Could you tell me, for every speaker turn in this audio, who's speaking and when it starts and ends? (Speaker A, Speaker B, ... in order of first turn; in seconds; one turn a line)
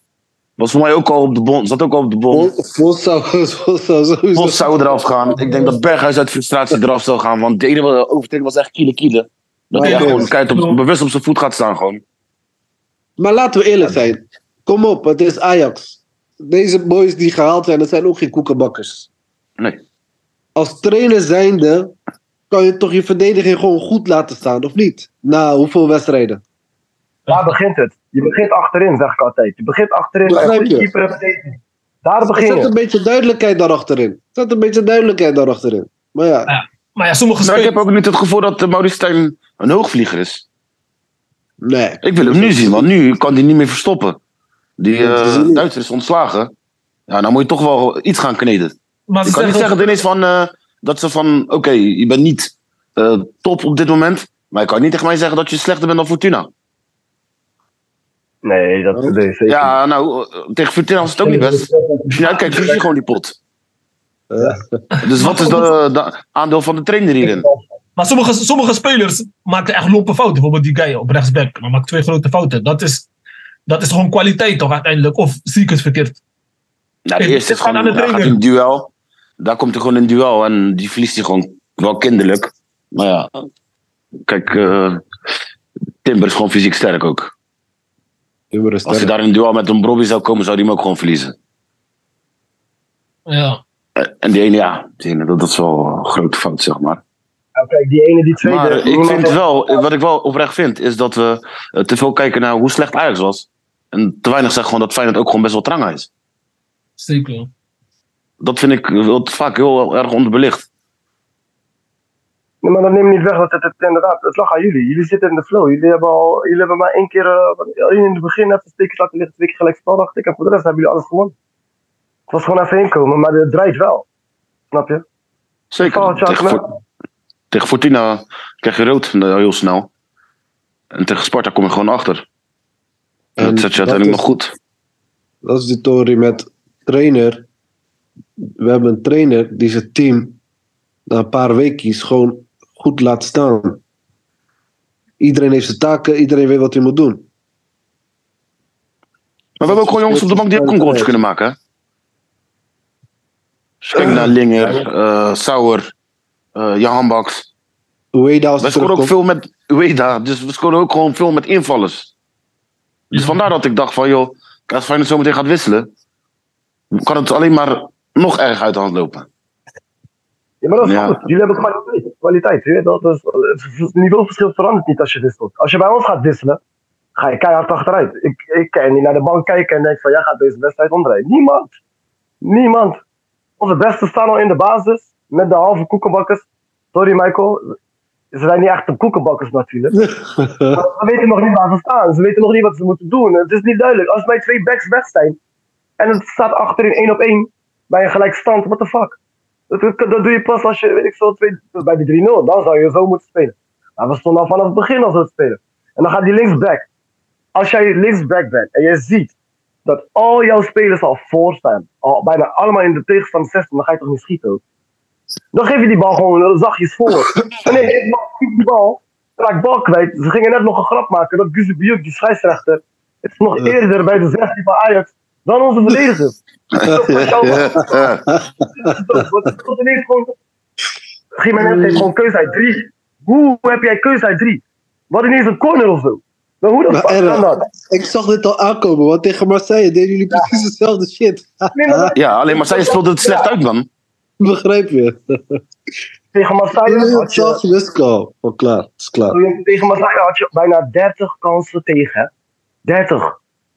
Speaker A: 0.6-2.5
Speaker B: 2.3-5.3
Speaker A: 4.3-12.0
Speaker B: 9.7-10.3
Speaker C: 9.8-10.8
Speaker B: 13.2-19.1
Speaker B: 20.5-21.9
Speaker B: 22.5-26.4
Speaker C: 27.3-27.5
Speaker D: 27.3-32.7
Speaker B: 30.2-30.9
Speaker B: 32.3-36.5
Speaker C: 36.5-37.7
Speaker A: 37.4-40.4
Speaker B: 41.6-42.9
Speaker A: 42.0-44.2
Speaker A: 44.8-46.5
Speaker B: 45.0-45.7
Speaker A: 47.1-48.7
Speaker C: 49.1-49.9
Speaker A: 49.2-56.5
Speaker D: 58.4-59.8
Speaker A: 59.5-63.4
Speaker D: 61.1-62.8
Speaker B: 64.3-64.8
Speaker C: 65.0-65.7
Speaker A: 65.0-67.5
Speaker D: 67.2-67.6
Speaker C: 68.0-73.1
Speaker C: 73.7-76.2
Speaker A: 77.0-83.5
Speaker C: 77.2-78.4
Speaker A: 84.2-85.0
Speaker A: 86.0-87.3
Speaker B: 88.5-89.1
Speaker A: 88.8-91.3
Speaker C: 93.3-93.6
Speaker A: 94.0-97.0
Speaker D: 97.6-99.8
Speaker A: 98.4-106.1
Speaker C: 107.0-107.5
Speaker A: 108.4-110.7
Speaker D: 112.6-121.3
Speaker D: 122.3-124.0
Speaker D: 124.7-125.0
Speaker A: 125.7-126.6
Speaker D: 125.8-126.6
Speaker A: 127.5-129.9
Speaker A: 130.9-132.2
Speaker B: 133.4-134.3
Speaker A: 133.4-134.5
Speaker B: 135.4-137.5
Speaker B: 138.4-140.4
Speaker B: 141.1-143.8
Speaker B: 145.2-147.2
Speaker A: 149.6-151.6
Speaker B: 149.6-151.1
Speaker A: 153.8-155.9
Speaker D: 154.0-154.8
Speaker A: 156.5-157.5
Speaker B: 158.1-159.1
Speaker A: 158.6-162.1
Speaker A: 163.1-165.9
Speaker A: 166.9-169.3
Speaker D: 170.6-176.6
Speaker A: 170.8-171.2
Speaker D: 177.2-181.7
Speaker D: 182.4-183.0
Speaker D: 183.6-187.7
Speaker D: 188.3-190.1
Speaker B: 190.4-190.8
Speaker D: 190.7-195.4
Speaker D: 196.0-199.2
Speaker D: 199.7-206.9
Speaker D: 207.5-209.3
Speaker D: 209.8-214.6
Speaker D: 215.5-228.0
Speaker A: 226.7-228.2
Speaker B: 226.9-228.4
Speaker D: 228.8-230.3
Speaker D: 231.4-237.6
Speaker B: 231.6-232.1
Speaker B: 236.9-242.1
Speaker D: 241.7-243.5
Speaker A: 242.1-243.9
Speaker B: 244.4-245.6
Speaker D: 246.3-247.6
Speaker B: 246.8-249.4
Speaker D: 249.3-252.3
Speaker D: 252.8-253.4